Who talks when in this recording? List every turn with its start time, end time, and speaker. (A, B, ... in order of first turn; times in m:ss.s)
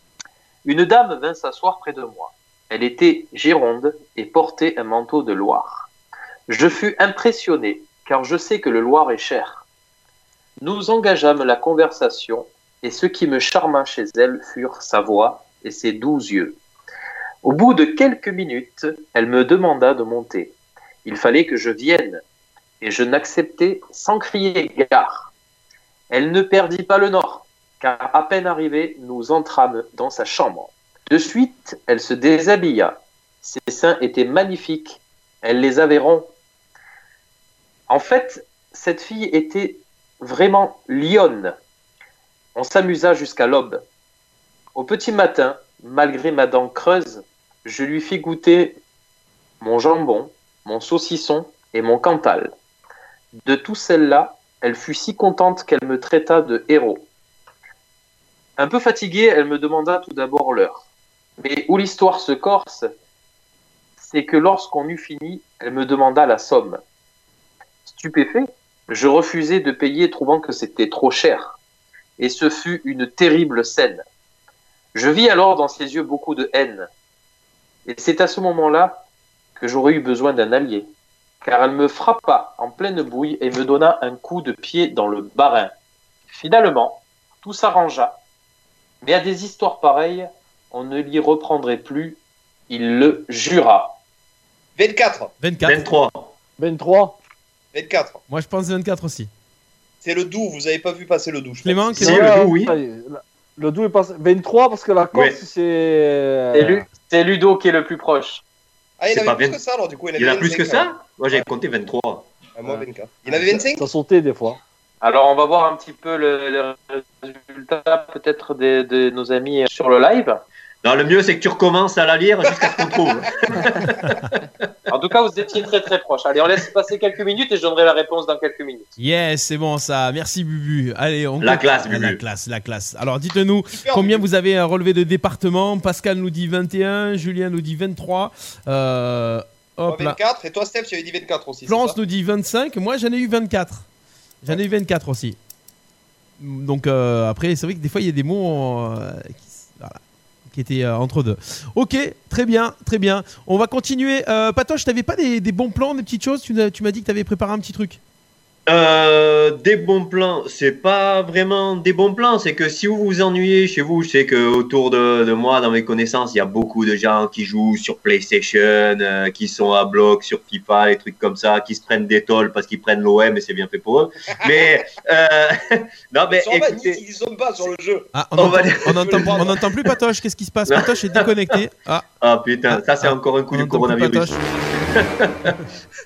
0:00.6-0:05.9 A
0:06.5-0:09.6 A
0:10.6-0:16.6 A
0:17.4-0:22.2 A
0:22.8-0:25.3 A
0:26.1-0:36.3 A
0:37.9-0:41.6 A
0:42.6-0:43.8 A
0:44.8-0:48.8 A
0:49.6-0:52.5 A
0:53.4-0:57.1 A
0:58.6-1:00.9 A
1:01.4-1:02.9 A
1:04.0-1:06.8 A
1:07.9-1:11.6 A
1:12.2-1:14.0 A
1:14.9-1:16.9 A
1:17.9-1:19.0 A
1:19.6-1:20.9 A
1:21.4-1:25.7 A
1:26.3-1:28.2 A
1:29.0-1:34.0 A
1:34.8-1:35.3 B
1:35.4-1:35.9 C
1:35.6-1:36.3 D
1:36.6-1:37.2 E
1:37.7-1:38.2 B
1:38.3-1:39.3 C
1:40.0-1:42.0 B
1:41.6-1:42.3 C
1:42.0-1:42.8 D
1:42.0-1:46.8 E
1:45.1-1:45.4 D
1:46.5-1:48.4 A
1:49.0-1:51.5 B
1:49.1-1:49.6 D
1:50.2-1:52.3 D
1:52.6-1:53.8 B
1:52.7-1:54.6 E
1:55.0-2:00.4 A
2:00.8-2:04.4 D
2:02.6-2:03.0 B
2:04.9-2:08.9 A
2:09.0-2:20.2 C
2:11.4-2:12.2 D
2:13.7-2:14.3 B
2:19.9-2:22.0 B
2:21.7-2:23.9 C
2:24.4-2:25.4 C
2:26.4-2:38.0 C
2:38.7-2:57.0 D
2:56.3-2:58.1 B
2:58.1-3:02.1 C
2:58.4-2:59.6 D
2:58.9-2:59.6 B
3:00.7-3:01.3 D
3:02.2-3:05.6 D
3:02.7-3:04.4 C